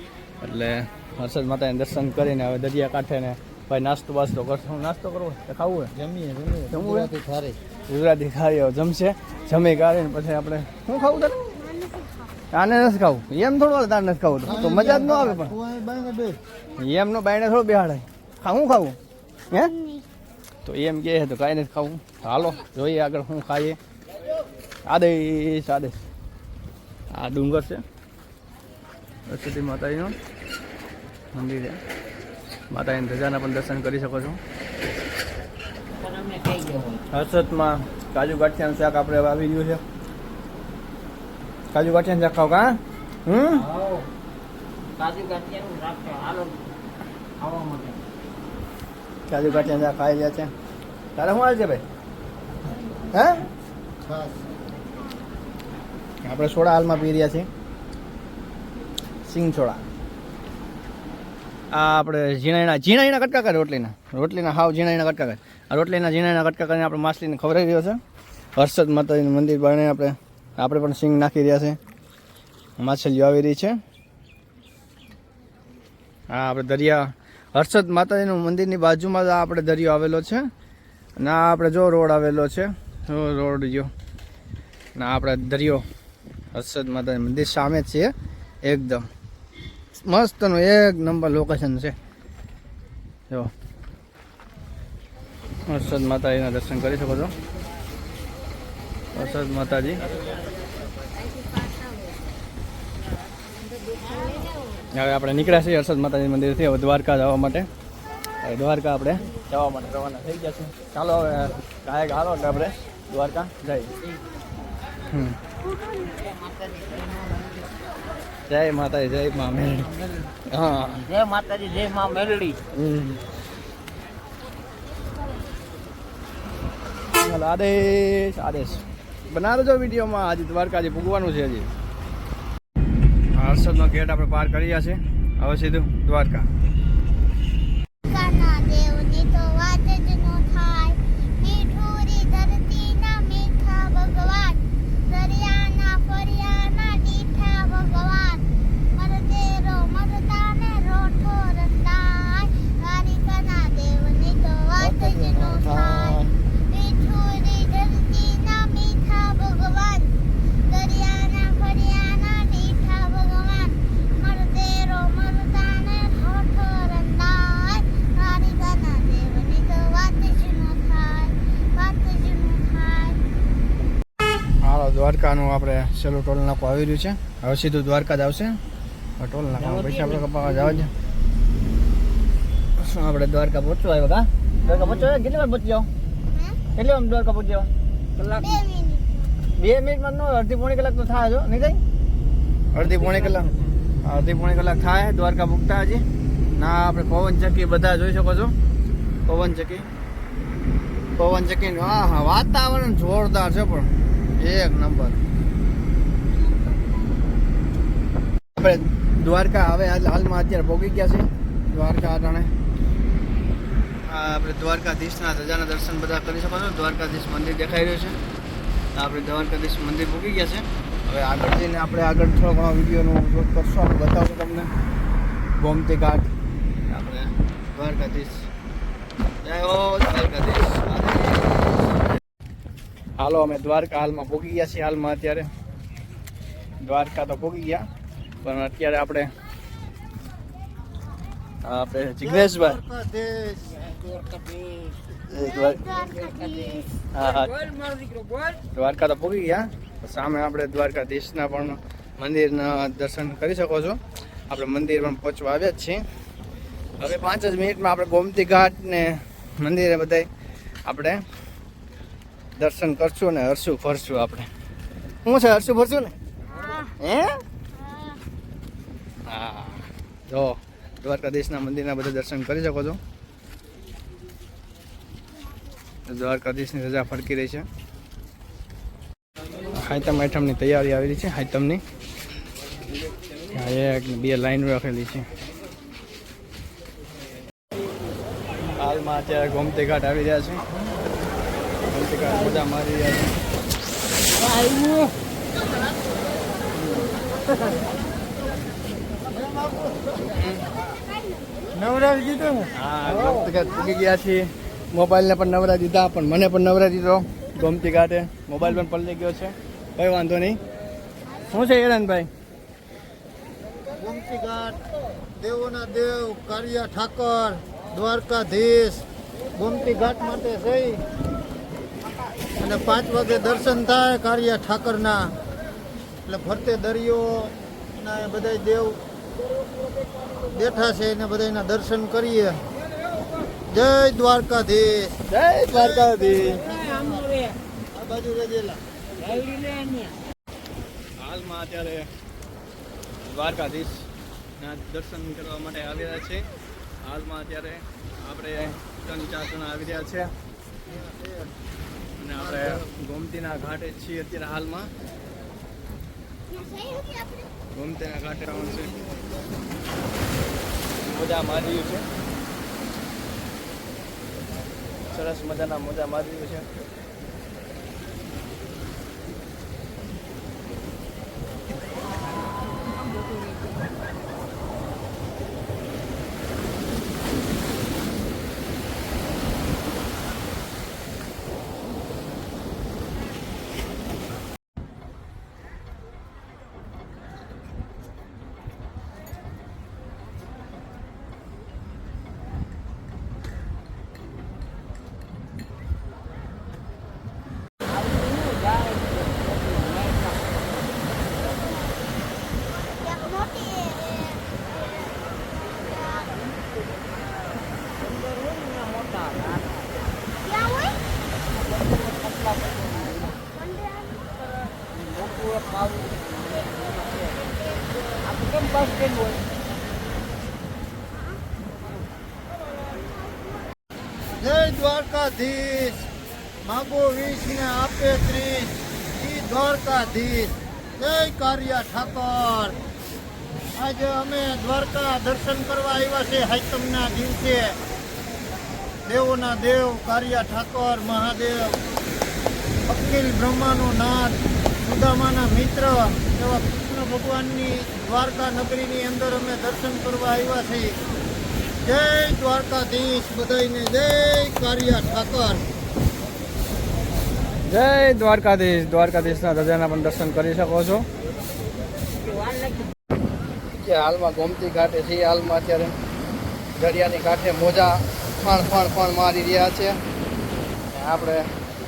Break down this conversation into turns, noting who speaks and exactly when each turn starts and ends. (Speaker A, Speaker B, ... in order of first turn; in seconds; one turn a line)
Speaker A: 0.4-5.9
Speaker B: 6.1-7.6
Speaker A: 6.7-7.2
Speaker A: 7.9-11.4
Speaker C: 11.4-12.3
Speaker A: 12.5-15.6
Speaker B: 14.5-16.4
Speaker A: 16.8-19.0
Speaker C: 19.6-20.0
Speaker A: 20.6-23.8
Speaker A: 24.9-26.0
Speaker A: 27.1-27.8
Speaker A: 29.3-30.1
Speaker A: 31.3-31.8
Speaker A: 32.7-34.4
Speaker D: 36.0-37.0
Speaker A: 37.1-39.8
Speaker A: 41.7-43.7
Speaker D: 43.7-44.1
Speaker D: 45.0-46.5
Speaker D: 47.4-48.0
Speaker A: 49.3-50.5
Speaker A: 51.1-51.8
Speaker A: 53.1-53.5
Speaker A: 56.2-57.5
Speaker A: 59.2-59.8
Speaker A: 61.7-68.0
Speaker A: 68.6-71.8
Speaker A: 72.8-73.8
Speaker A: 76.3-80.5
Speaker A: 81.2-83.9
Speaker A: 85.0-85.8
Speaker A: 86.5-88.1
Speaker A: 88.6-89.1
Speaker A: 90.0-91.9
Speaker A: 95.7-97.3
Speaker A: 99.1-100.0
Speaker A: 104.9-107.7
Speaker A: 108.4-113.9
Speaker A: 115.1-115.4
Speaker D: 116.0-117.3
Speaker A: 118.5-121.1
Speaker D: 121.0-122.6
Speaker A: 122.7-123.2
Speaker A: 127.2-131.7
Speaker A: 133.3-136.5
Speaker C: 138.1-173.2
Speaker A: 154.8-156.3
Speaker A: 174.6-178.6
Speaker A: 179.2-180.9
Speaker D: 179.7-180.2
Speaker A: 182.8-185.9
Speaker C: 186.3-186.6
Speaker A: 186.7-188.6
Speaker C: 188.4-189.3
Speaker A: 189.6-191.8
Speaker A: 192.7-196.0
Speaker A: 196.6-198.5
Speaker A: 199.2-199.9
Speaker A: 201.2-205.2
Speaker A: 208.6-212.5
Speaker A: 214.1-218.2
Speaker A: 218.9-224.7
Speaker A: 225.6-226.3
Speaker A: 226.9-228.5
Speaker A: 229.4-231.5
Speaker A: 233.2-235.5
Speaker A: 236.8-237.8
Speaker A: 238.4-239.3
Speaker A: 241.6-242.8
Speaker B: 242.2-243.8
Speaker D: 244.1-244.9
Speaker A: 245.3-245.8
Speaker C: 245.3-246.9
Speaker D: 246.3-246.6
Speaker A: 247.1-247.6
Speaker A: 248.7-254.0
Speaker A: 254.5-256.0
Speaker A: 257.0-260.3
Speaker A: 260.9-261.2
Speaker A: 262.6-264.5
Speaker A: 265.2-266.1
Speaker C: 266.5-266.9
Speaker A: 267.0-267.4
Speaker C: 267.7-268.2
Speaker A: 269.2-273.0
Speaker A: 276.1-277.7
Speaker A: 279.7-281.8
Speaker A: 283.5-285.3
Speaker A: 288.8-290.6
Speaker A: 291.9-293.3
Speaker D: 294.7-295.1
Speaker A: 296.7-297.1
Speaker B: 299.4-300.1
Speaker A: 300.2-300.6
Speaker B: 301.7-302.7
Speaker A: 302.7-310.6
Speaker A: 311.5-312.3
Speaker B: 314.0-314.8
Speaker B: 315.4-321.0
Speaker B: 322.6-325.3
Speaker B: 326.2-329.0
Speaker B: 330.5-332.6
Speaker B: 333.7-335.1
Speaker A: 335.3-336.7
Speaker B: 336.5-337.3
Speaker B: 337.9-338.8
Speaker D: 339.2-340.1
Speaker A: 341.2-342.1
Speaker A: 343.3-344.1
Speaker A: 344.6-346.4
Speaker A: 347.0-350.3
Speaker B: 350.9-351.5
Speaker A: 352.2-354.9
Speaker C: 356.5-357.5
Speaker A: 357.7-358.9
Speaker A: 361.0-362.0
Speaker A: 365.1-366.6
Speaker D: 397.9-400.5
Speaker C: 402.7-404.5
Speaker C: 405.7-406.6
Speaker D: 408.0-410.0
Speaker C: 410.4-411.0
Speaker D: 411.5-413.4
Speaker C: 413.5-414.3
Speaker D: 414.9-417.6
Speaker D: 418.2-419.5
Speaker B: 424.4-426.1
Speaker B: 426.6-432.8
Speaker B: 433.8-437.8
Speaker B: 439.0-441.8
Speaker B: 442.9-450.9
Speaker B: 451.8-455.6
Speaker A: 457.6-461.0
Speaker A: 463.7-465.9
Speaker A: 466.8-470.0
Speaker A: 470.9-471.5